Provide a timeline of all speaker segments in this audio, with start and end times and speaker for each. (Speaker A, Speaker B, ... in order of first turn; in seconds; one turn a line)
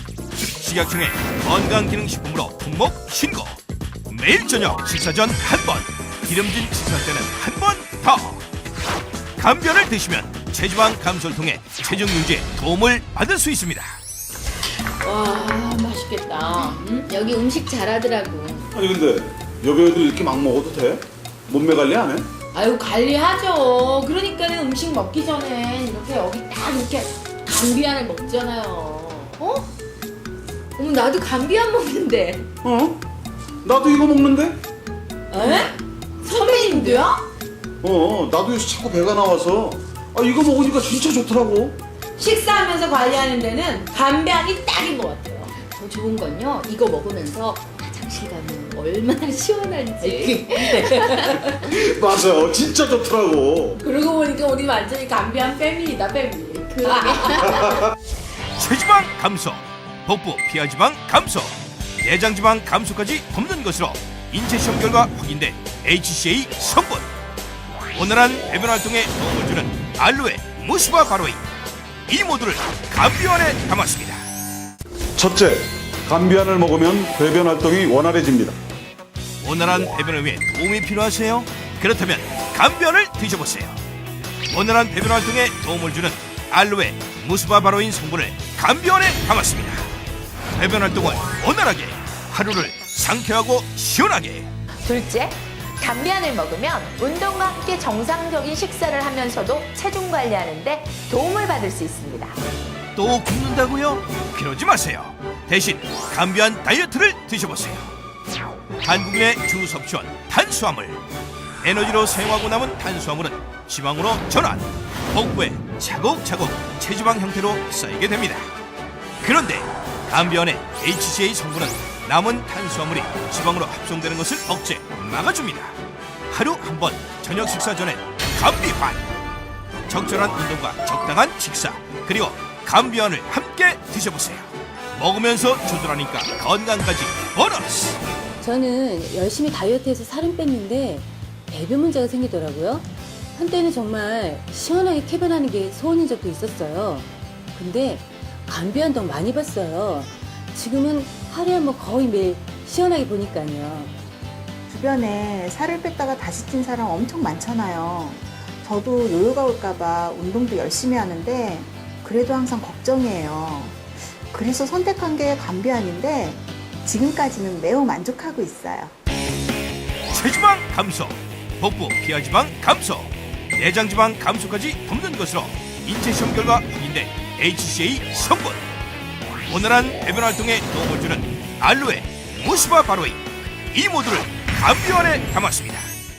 Speaker A: 0.6-8.4
Speaker A: 9.4-14.0
Speaker B: 15.0-18.7
Speaker C: 18.7-22.3
Speaker B: 22.5-29.7
Speaker B: 30.8-32.5
Speaker C: 32.6-33.0
Speaker C: 33.6-34.6
Speaker B: 35.3-37.3
Speaker C: 37.8-41.8
Speaker B: 42.1-51.7
Speaker C: 51.2-53.8
Speaker B: 53.8-57.8
Speaker A: 58.6-67.1
Speaker A: 67.9-71.4
Speaker A: 72.1-74.2
Speaker C: 75.2-78.5
Speaker A: 79.4-83.8
Speaker A: 84.5-89.9
Speaker A: 90.5-94.5
Speaker D: 94.8-102.4
Speaker A: 103.0-107.9
Speaker A: 108.8-111.0
Speaker A: 111.6-118.5
Speaker A: 119.2-125.8
Speaker A: 126.3-129.1
Speaker A: 129.9-138.0
Speaker E: 138.4-153.9
Speaker F: 154.7-168.9
Speaker A: 170.1-178.6
Speaker A: 179.5-185.9